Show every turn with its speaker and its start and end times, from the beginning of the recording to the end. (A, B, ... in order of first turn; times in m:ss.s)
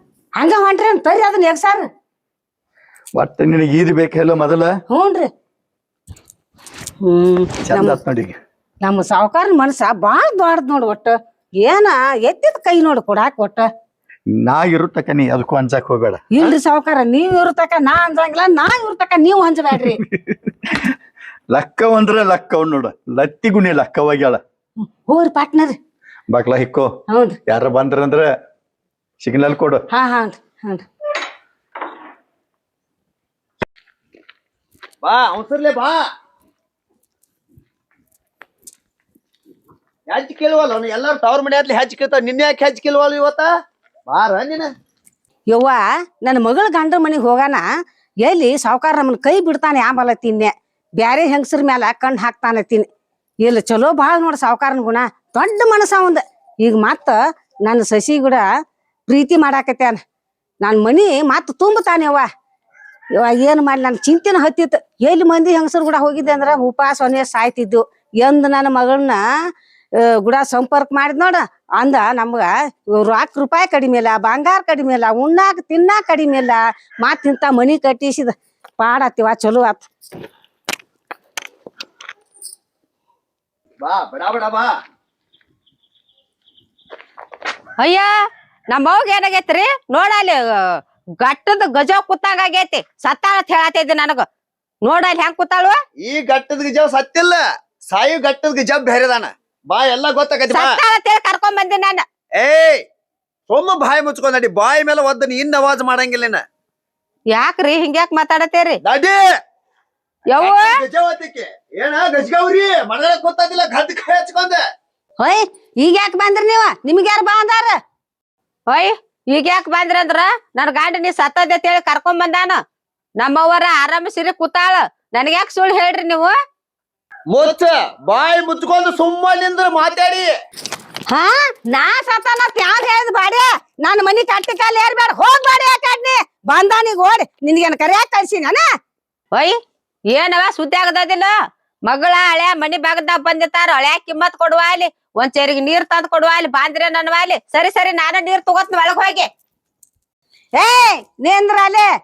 0:00.4-0:01.9 A
0:03.2-0:04.7 B
0:04.9-0:05.3 A
0:07.0-0:08.0 A
0:07.7-0:08.4 B
0:08.8-0:13.7 A
0:14.3-0:16.2 B
0:16.3-0:20.0 A
0:20.0-0:21.0 B
0:21.5-0:24.4 B
0:25.1-0:25.8 A
0:26.3-0:26.9 B
0:27.1-0:27.4 A
0:27.5-0:28.3 B
0:29.2-0:29.8 B
0:29.9-0:30.8 A
0:35.0-0:36.0 C
0:40.1-0:43.5 C
0:44.1-0:44.7 C
0:45.5-0:47.6 A
0:48.2-0:52.9 A
0:53.4-0:58.4 A
0:59.1-1:00.0 A
1:00.6-1:02.3 A
1:03.2-1:09.2 A
1:10.0-1:19.9 A
1:23.8-1:24.7 C
1:27.8-1:28.1 D
1:28.7-1:34.2 D
1:34.8-1:35.8 D
1:36.0-1:40.8 C
1:40.5-1:42.0 D
1:42.4-1:42.8 C
1:43.5-1:46.4 C
1:47.3-1:48.8 D
1:48.8-1:49.3 C
1:50.3-1:50.7 D
1:50.4-1:54.6 C
1:55.2-1:57.8 A
1:58.7-2:02.6 D
2:03.2-2:06.3 D
2:07.3-2:10.3 C
2:11.1-2:18.7 A
2:20.1-2:21.3 D
2:21.9-2:29.3 D
2:30.6-2:31.9 A